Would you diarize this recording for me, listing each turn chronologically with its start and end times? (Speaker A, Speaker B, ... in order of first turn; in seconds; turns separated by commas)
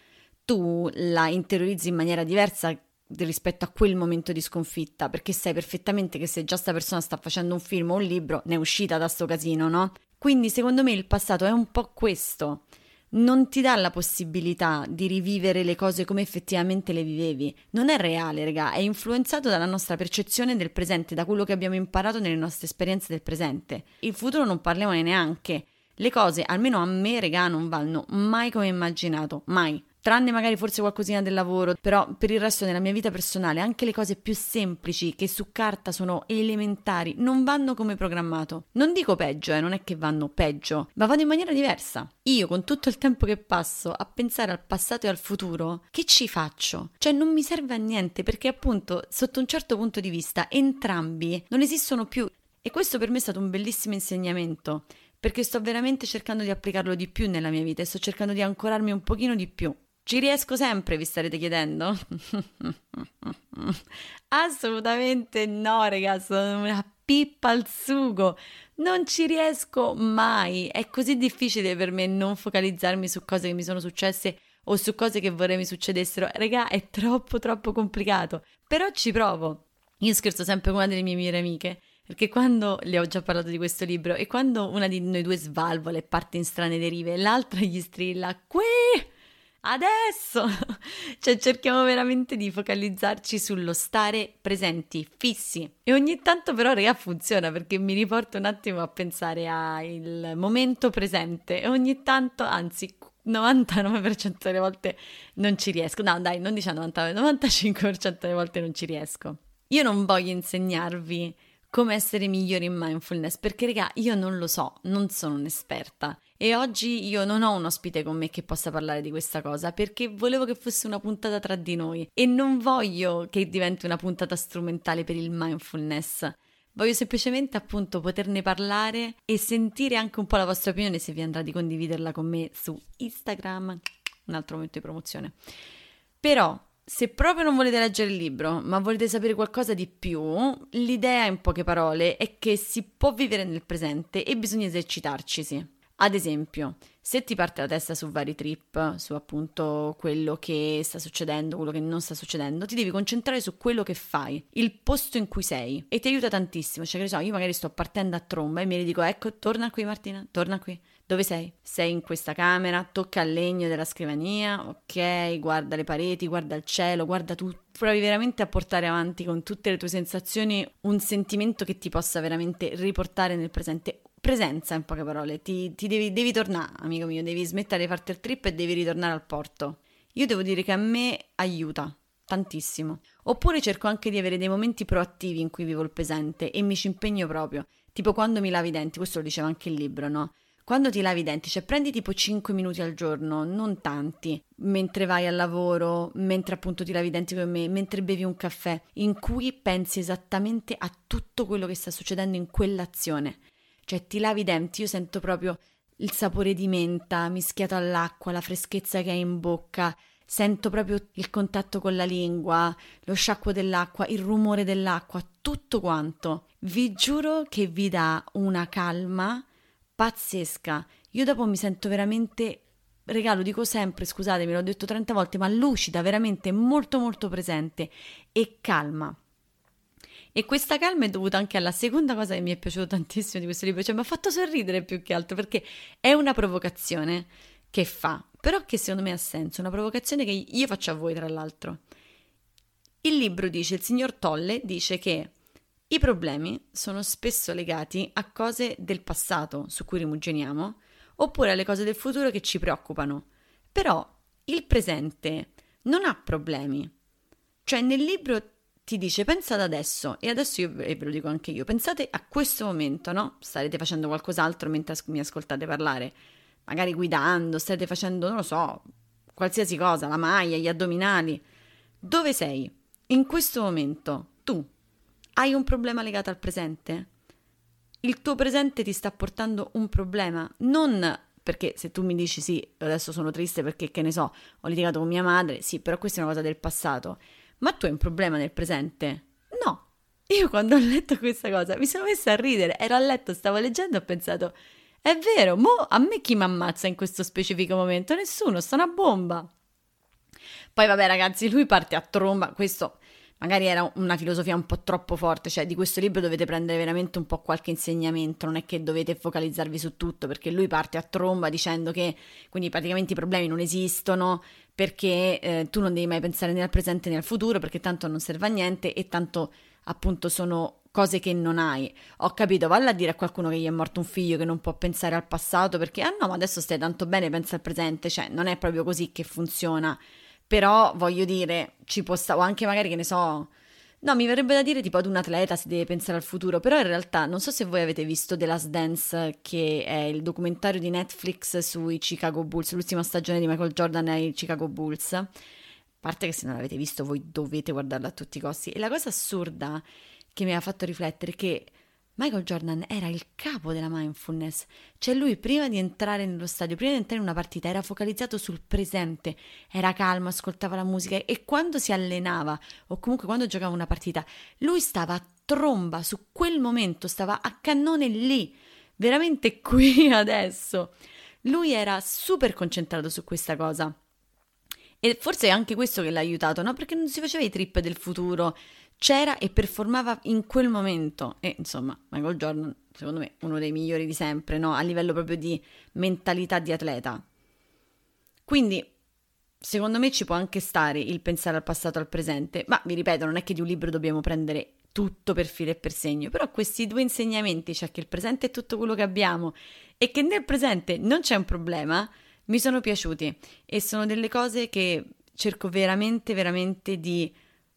Speaker A: 0.5-89.1, Speaker A: 89.6-135.4, Speaker A: 136.2-219.4, Speaker A: 220.0-229.2, Speaker A: 230.3-241.8, Speaker A: 243.0-245.3, Speaker A: 245.9-256.9, Speaker A: 257.6-271.4, Speaker A: 272.0-274.7, Speaker A: 275.4-277.1, Speaker A: 278.0-299.5, Speaker A: 300.7-333.5, Speaker A: 334.0-345.3, Speaker A: 346.0-373.9, Speaker A: 375.0-387.2, Speaker A: 388.4-388.9, Speaker A: 389.6-407.4